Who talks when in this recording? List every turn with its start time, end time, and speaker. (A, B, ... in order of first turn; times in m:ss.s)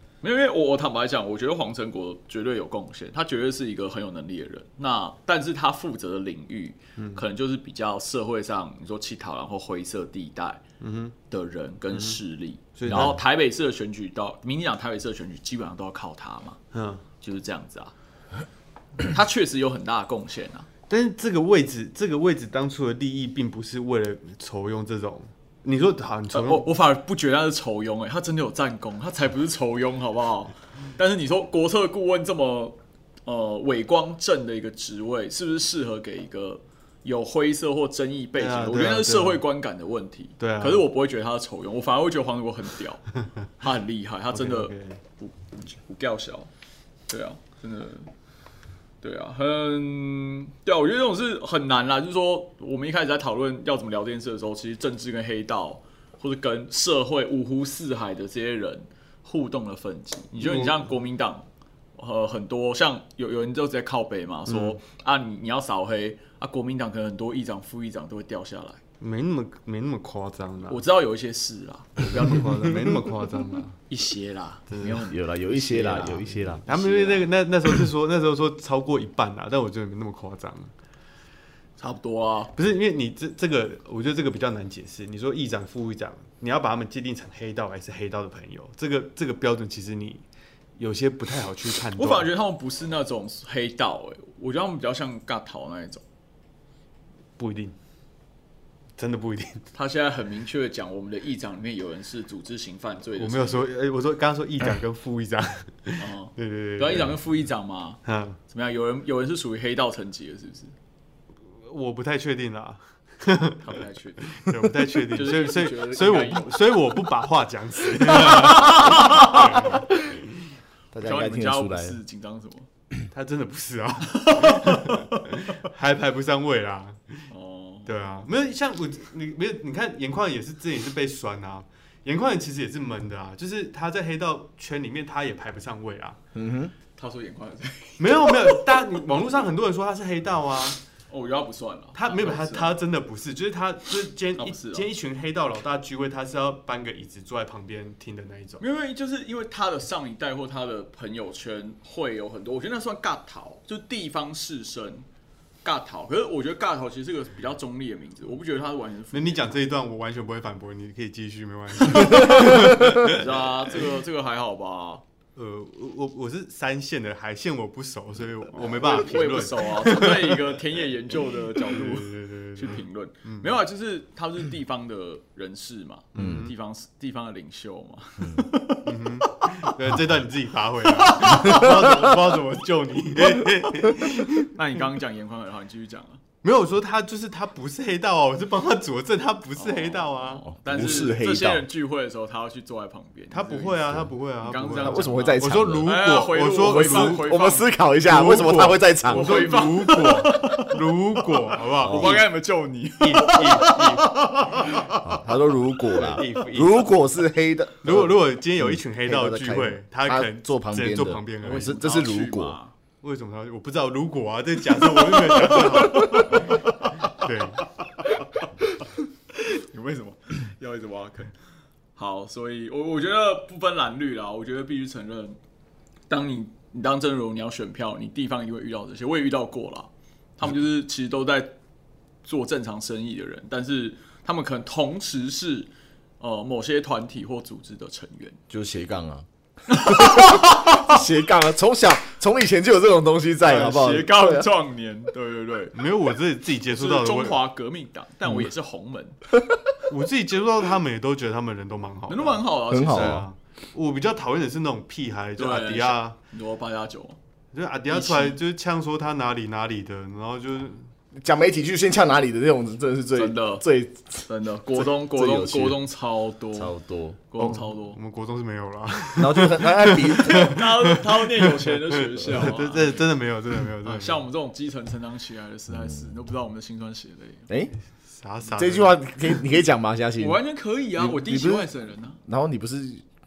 0:00.2-0:10.6 A
0:07.0-0:07.2 B
0:10.8-0:11.2 B
0:11.3-0:16.6 A
0:11.9-0:12.2 B
0:12.8-0:13.2 B
0:16.7-0:17.0 B
0:17.2-0:17.9 A
0:19.0-0:20.7 A
0:20.9-0:26.7 B
0:26.3-0:46.5 A
0:38.4-0:39.4 B
0:40.4-0:40.8 B
0:44.3-0:45.0 B
0:47.1-0:48.1 A
0:49.0-1:08.8 A
1:00.4-1:00.9 B
1:04.5-1:04.8 B
1:09.0-1:10.8 B
1:10.7-1:12.8 A
1:12.1-1:13.8 B
1:13.9-1:17.3 A
1:14.7-1:15.1 B
1:15.1-1:16.6 C
1:16.7-1:20.7 B
1:21.8-1:22.5 A
1:22.6-1:30.2 B
1:30.8-1:32.3 B
1:32.0-1:36.0 A
1:37.4-1:37.8 B
1:39.0-1:39.7 B
1:39.7-1:43.6 A
1:43.2-1:47.2 B
1:46.0-1:50.7 A
1:48.0-1:48.4 B
1:51.6-1:53.7 B
1:53.6-1:54.4 A
1:54.3-2:00.2 B
1:55.1-1:56.8 A
1:58.6-1:59.7 A
1:59.1-2:00.0 C
2:00.9-2:02.0 C
2:01.0-2:02.7 A
2:03.1-2:07.3 B
2:04.1-2:05.3 A
2:07.3-2:08.0 A
2:07.9-2:16.2 B
2:16.4-2:16.7 C
2:17.0-2:18.9 A
2:18.0-2:20.8 B
2:21.1-2:22.8 A
2:22.0-2:28.6 B
2:24.4-2:24.9 A
2:28.6-2:35.1 A
2:35.6-2:39.5 A
2:39.1-2:43.8 B
2:41.9-2:45.0 A
2:45.4-2:50.5 B
2:48.6-2:59.7 A
2:51.7-2:53.6 B
2:56.1-2:56.5 B
2:56.2-2:56.5 C
2:58.8-3:04.5 B
3:00.9-3:02.1 A
3:04.5-3:06.2 A
3:06.4-3:10.4 B
3:09.6-3:13.8 A
3:10.5-3:11.6 C
3:13.3-3:17.4 B
3:14.4-3:17.7 A
3:14.8-3:15.9 C
3:16.7-3:19.6 C
3:18.0-3:22.3 B
3:19.1-3:24.9 A
3:21.8-3:22.2 C
3:23.0-3:25.1 B
3:24.9-3:32.6 C
3:25.8-3:26.9 B
3:27.8-3:31.8 B
3:31.4-3:32.7 A
3:33.0-3:37.7 B
3:35.0-3:37.3 A
3:39.3-3:41.3 A
3:42.0-3:45.4 A
3:46.1-3:51.6 A
3:52.2-3:58.4 A
3:58.5-4:04.5 C
3:59.7-4:00.9 A
4:03.4-4:05.8 A
4:05.7-4:07.4 B
4:06.7-4:09.2 A
4:09.9-4:16.2 B
4:12.1-4:13.2 A
4:12.7-4:13.3 C
4:15.4-4:17.2 A
4:17.5-4:20.9 B
4:17.9-4:18.4 A
4:21.2-4:25.8 C
4:23.2-4:23.6 A
4:24.3-4:26.8 A
4:26.5-4:27.2 C
4:27.3-4:28.0 A
4:27.4-4:34.2 B
4:29.2-4:30.6 C
4:30.2-4:33.1 A
4:33.8-4:37.5 A
4:35.8-4:36.1 C
4:37.5-4:37.7 C
4:38.1-4:39.0 B
4:38.5-4:40.4 C
4:40.2-4:42.2 A
4:41.0-4:41.7 C
4:42.2-4:43.0 C